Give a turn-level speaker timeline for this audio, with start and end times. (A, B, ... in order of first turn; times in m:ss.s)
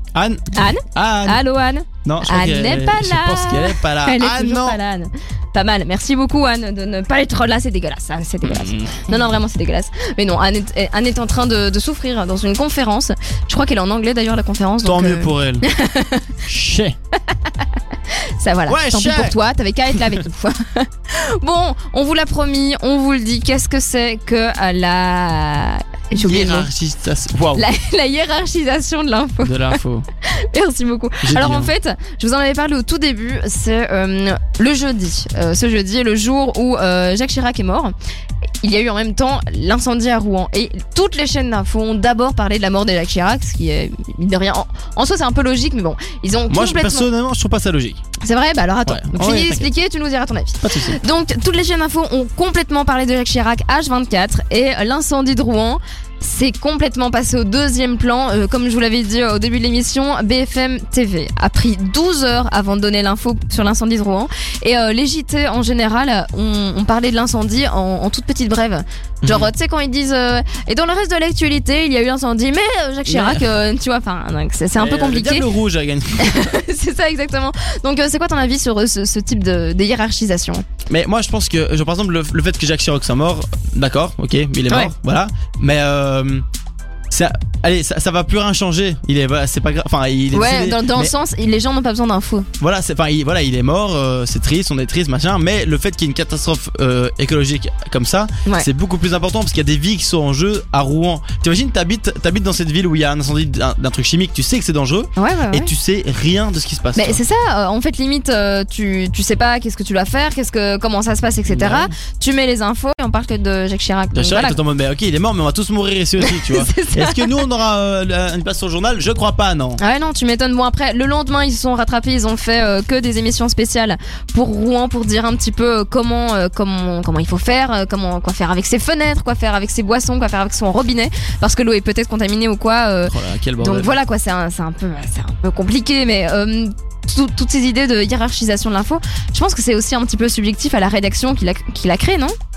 0:00.1-0:01.4 A
0:00.5-0:16.4 B
0:02.0-0:04.8 A
0:08.4-0:09.1 A
0:14.8-0:15.6 A
0:16.4-0:16.9 A
0:17.3-0:26.7 B
0:18.7-0:19.4 A
0:26.2-0:27.6 A
0:27.5-0:37.9 B
0:29.4-0:30.0 A
0:31.2-0:31.7 A
0:38.6-0:47.1 B
0:46.5-0:48.0 A
0:48.2-1:15.5 B
0:48.8-0:49.6 A
0:50.6-0:51.0 A
1:09.2-1:09.5 A
1:13.1-1:13.5 A
1:14.8-1:16.5 A
1:16.2-1:20.6 B
1:20.9-1:26.4 A
1:24.7-1:24.9 B
1:27.1-1:31.1 A
1:30.3-1:32.5 B
1:32.6-1:47.2 A
1:45.2-1:45.7 B
1:47.0-1:54.6 B
1:51.5-1:51.9 A
1:54.1-1:59.8 A
1:56.2-1:57.5 B
1:59.8-2:22.3 B
2:13.0-2:13.9 A